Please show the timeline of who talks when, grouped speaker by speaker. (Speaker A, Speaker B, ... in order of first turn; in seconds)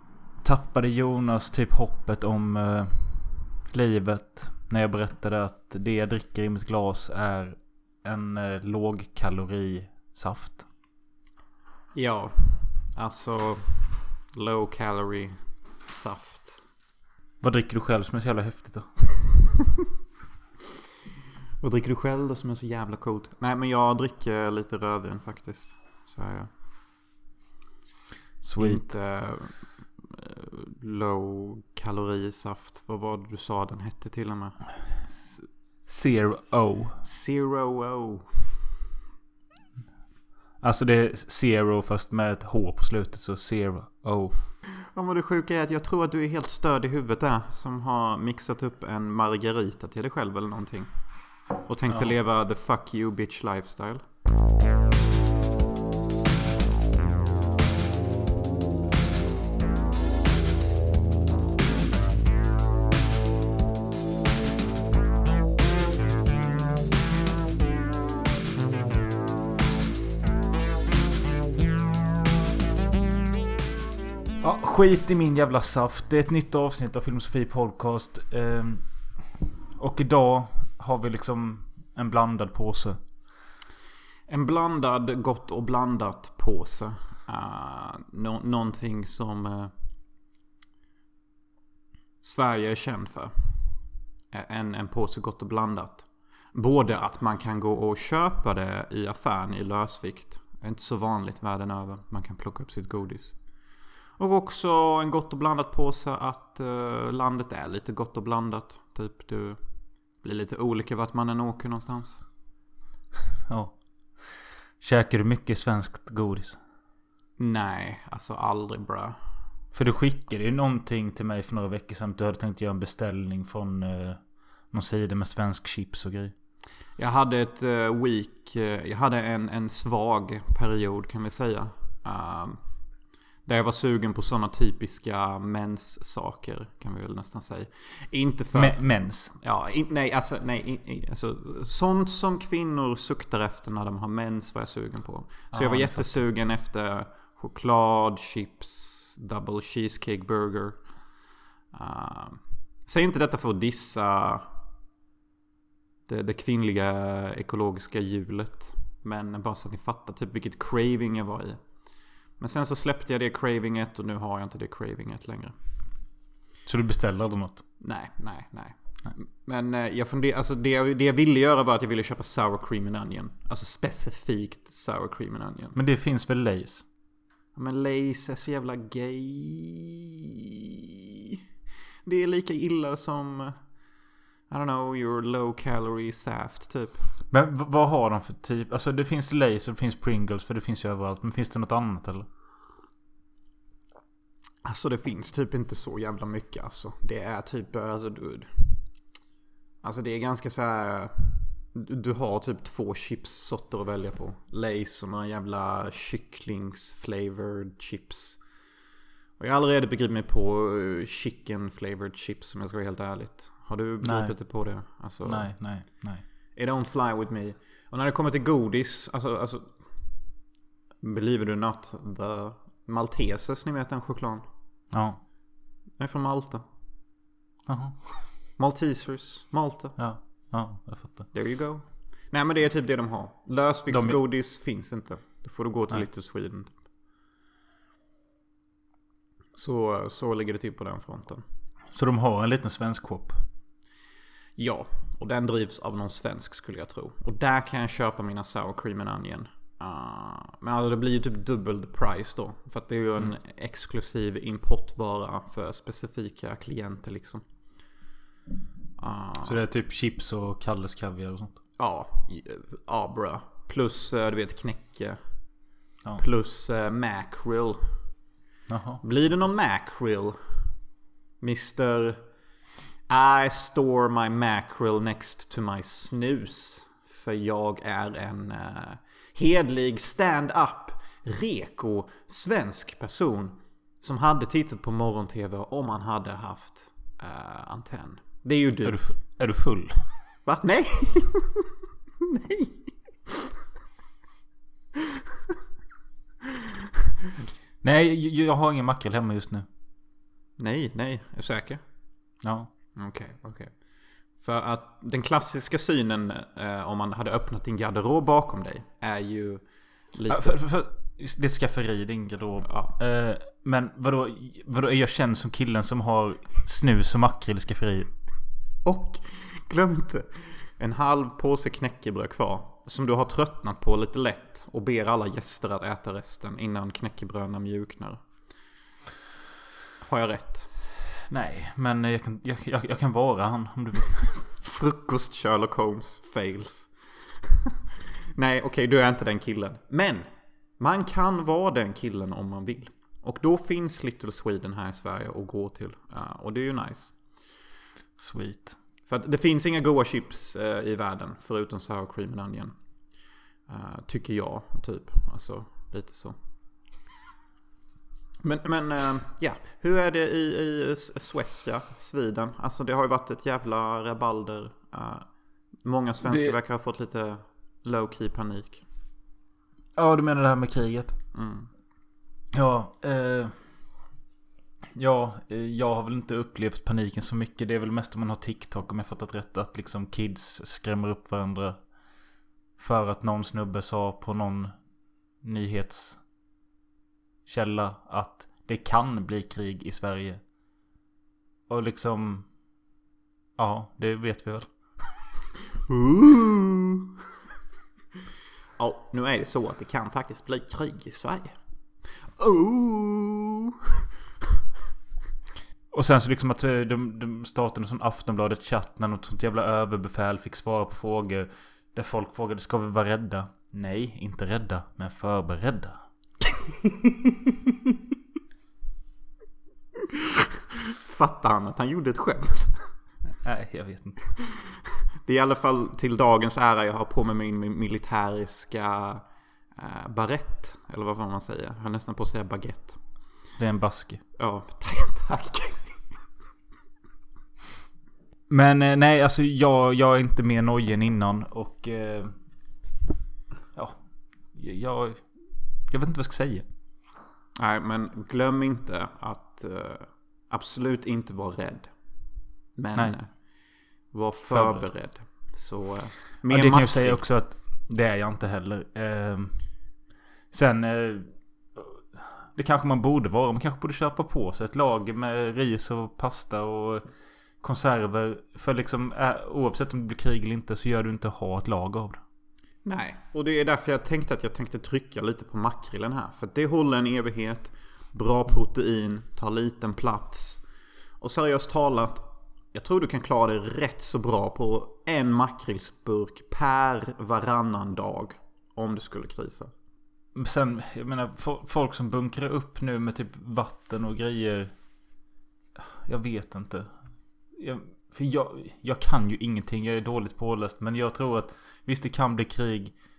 Speaker A: 0.4-10.7, 17.4-19.1, 28.4-28.9, 35.9-37.0, 40.6-44.4, 74.4-78.8, 79.8-83.0, 113.5-116.6, 119.7-126.3, 138.5-139.3, 145.5-146.2, 166.7-167.6, 175.7-176.8, 187.3-192.3, 214.0-214.3, 215.2-216.2, 224.9-225.2, 227.7-228.0, 230.0-231.3, 233.9-234.2, 241.9-243.4, 259.4-261.6, 268.7-269.0, 288.8-290.1, 297.8-299.6, 302.4-302.7, 310.3-318.1, 331.3-334.3, 348.2-348.8, 366.2-366.5, 369.9-371.2, 372.5-373.5, 374.9-381.8, 382.8-384.7, 385.4-386.2, 387.4-390.4, 391.7-392.5, 393.6-394.7, 405.9-416.0, 423.4-424.2, 433.6-434.2, 438.5-442.4, 443.7-446.7, 454.5-454.9, 456.5-459.8, 460.5-467.0, 467.6-472.2, 490.3-494.7, 495.8-496.9, 497.5-502.9
Speaker B: 11.9-16.6, 21.6-26.5, 28.6-35.4, 37.0-38.5, 44.8-54.0, 84.3-89.7, 92.2-93.6, 94.3-103.4, 104.2-109.6, 110.2-112.2, 117.4-119.2, 127.0-132.6, 133.4-150.8, 151.7-154.5, 156.1-161.6, 162.4-165.5, 167.8-175.8, 177.5-181.3, 182.0-183.6, 184.5-187.1, 194.6-198.8, 199.8-208.4, 209.4-215.5, 216.5-219.9, 221.0-224.4, 226.0-226.6, 228.6-230.0, 231.3-236.8, 239.5-241.4, 244.6-257.4, 259.0-259.6, 261.8-265.2, 266.2-268.0, 269.0-270.4, 271.4-272.2, 273.1-289.0, 290.4-291.6, 292.2-293.3, 300.6-301.8, 302.9-310.6, 312.6-312.9, 318.8-328.2, 330.0-330.7, 334.5-337.7, 338.3-340.2, 340.8-347.2, 349.1-352.7, 353.7-356.4, 358.4-365.3, 365.8-368.8, 371.3-371.7, 395.9-397.1, 398.8-403.8, 416.8-417.5, 420.9-422.9, 424.5-433.0, 434.4-436.0, 447.6-451.9, 452.8-457.2, 472.8-480.6, 481.2-489.7